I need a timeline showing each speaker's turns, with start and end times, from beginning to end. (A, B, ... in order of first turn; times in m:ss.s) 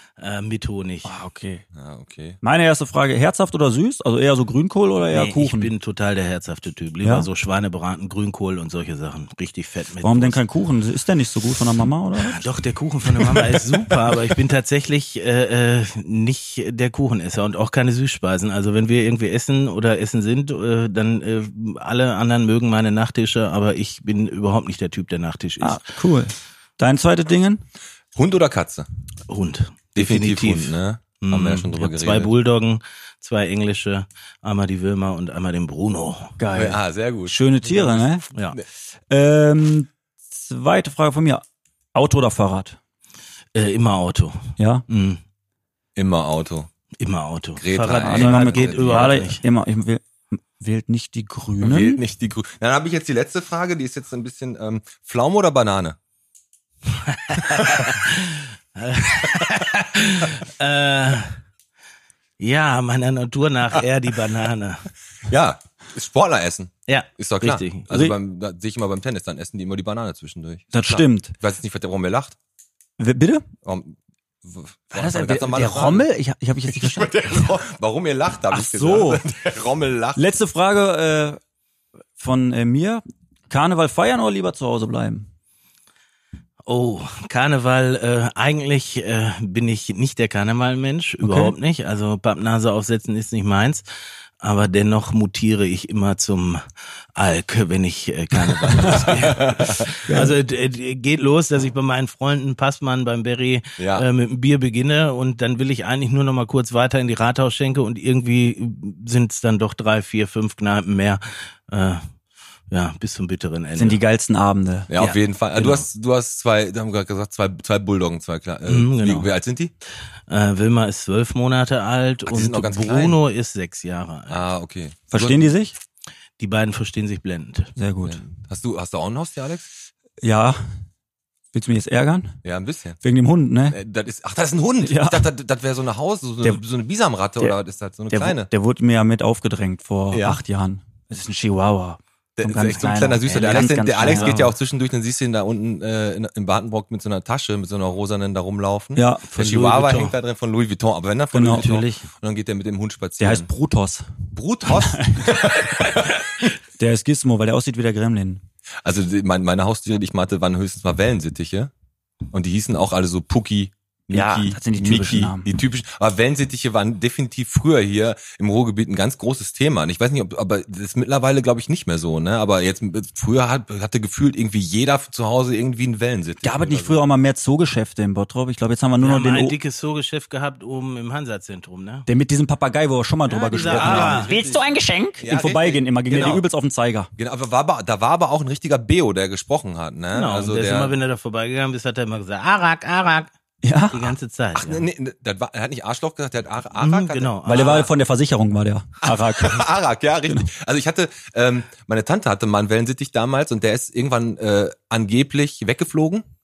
0:00.2-0:01.1 A
0:01.0-0:01.6 B
0:01.7-0:02.4 C
0:02.4-0:05.7 B
0:05.1-0:10.4 A
0:07.0-0:07.3 B
0:10.0-0:12.5 B
0:12.2-0:25.8 A
0:25.6-0:27.6 B
0:28.1-0:28.8 C
0:29.3-0:36.4 A
0:30.0-0:32.3 C
0:36.4-0:38.2 B
0:36.5-0:38.6 C
0:39.1-0:41.4 B
0:41.9-0:42.8 B
0:43.5-0:45.2 A
0:44.6-0:44.8 B
0:46.0-0:46.7 C
0:47.0-0:49.4 A
0:47.6-0:49.2 C
0:48.0-0:52.0 B
0:51.6-0:56.0 C
0:56.9-1:01.4 A
0:57.5-0:57.9 C
1:02.4-1:04.9 A
1:05.3-1:12.4 C
1:06.9-1:07.9 A
1:10.7-1:11.3 B
1:13.0-1:13.4 B
1:13.6-1:16.0 C
1:14.9-1:17.4 B
1:16.7-1:20.2 C
1:18.5-1:19.2 B
1:20.2-1:21.4 B
1:22.2-1:25.3 B
1:26.7-1:33.8 A
1:31.2-1:31.5 B
1:34.4-1:36.6 A
1:37.1-1:52.1 A
1:39.3-1:39.9 C
1:43.8-1:44.0 C
1:52.7-1:54.0 A
1:53.8-1:54.9 B
1:54.9-1:59.7 C
1:58.7-1:59.3 A
2:00.3-2:04.4 A
2:02.3-2:03.2 C
2:04.3-2:05.4 C
2:05.1-2:05.7 B
2:06.4-2:07.7 A
2:07.8-2:08.2 B
2:08.0-2:09.7 C
2:10.2-2:10.6 B
2:11.5-2:12.4 B
2:12.4-2:13.0 C
2:13.0-2:13.8 B
2:13.7-2:18.5 C
2:14.8-2:15.2 B
2:18.1-2:24.4 B
2:20.1-2:20.4 C
2:22.4-2:33.5 C
2:23.3-2:24.5 A
2:29.0-2:29.3 B
2:29.3-2:30.1 A
2:31.3-2:31.7 B
2:31.5-2:32.0 A
2:33.2-2:34.1 B
2:34.3-2:36.3 C
2:34.7-2:35.5 B
2:36.8-2:38.4 B
2:38.8-2:41.7 C
2:42.3-2:57.0 C
2:44.1-2:45.5 B
2:56.4-2:59.6 B
2:59.0-3:02.1 A
3:02.0-3:07.1 B
3:03.3-3:04.4 A
3:03.7-3:04.6 C
3:05.2-3:06.4 C
3:07.2-3:11.0 C
3:10.1-3:13.3 A
3:13.6-3:14.1 B
3:13.9-3:14.8 A
3:14.6-3:17.8 C
3:16.8-3:17.9 A
3:17.4-3:19.6 B
3:19.0-3:26.2 C